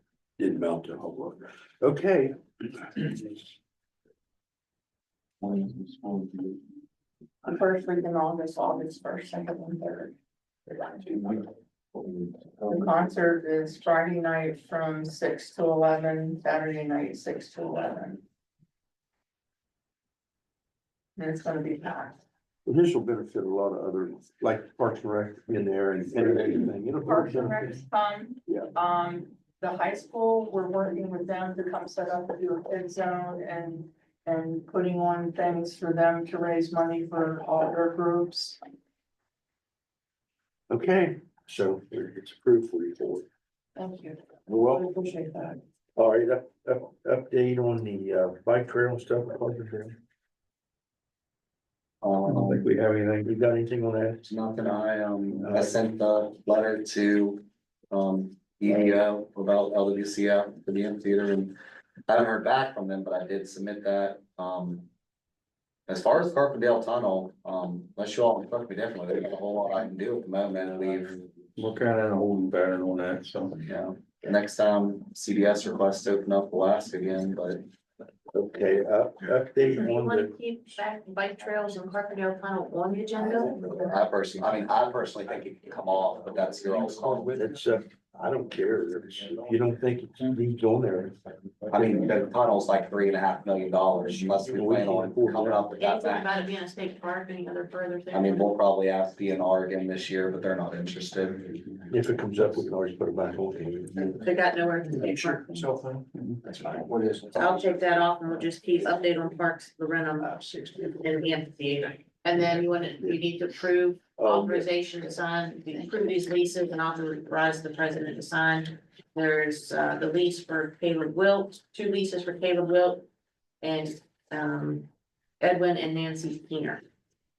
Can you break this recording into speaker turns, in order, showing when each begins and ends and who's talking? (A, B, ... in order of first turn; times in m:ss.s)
0:00.4-0:03.5 A
0:05.8-0:06.5 B
0:07.4-0:10.2 C
0:10.7-0:11.2 C
0:12.6-0:18.2 C
0:21.2-0:22.2 C
0:22.6-0:27.8 A
0:27.0-0:38.6 C
0:40.7-0:43.2 A
0:43.8-0:44.2 C
0:44.5-0:44.9 A
0:44.7-0:45.6 C
0:46.0-0:50.0 A
0:52.0-0:52.6 D
0:52.3-0:54.3 A
0:54.2-1:01.6 D
0:55.4-0:55.8 A
1:02.1-1:04.9 D
1:05.9-1:11.2 D
1:11.6-1:13.6 B
1:13.7-1:17.6 D
1:18.3-1:20.3 A
1:19.8-1:24.0 E
1:23.9-1:27.4 D
1:27.0-1:31.2 A
1:31.7-1:36.3 D
1:34.5-1:35.6 A
1:35.8-1:38.5 E
1:38.1-1:41.6 D
1:41.9-1:44.2 A
1:44.2-1:45.6 E
1:47.4-1:50.4 E
1:51.0-2:03.1 E
1:54.2-1:54.7 A
2:03.6-2:04.9 E
2:05.4-2:06.8 E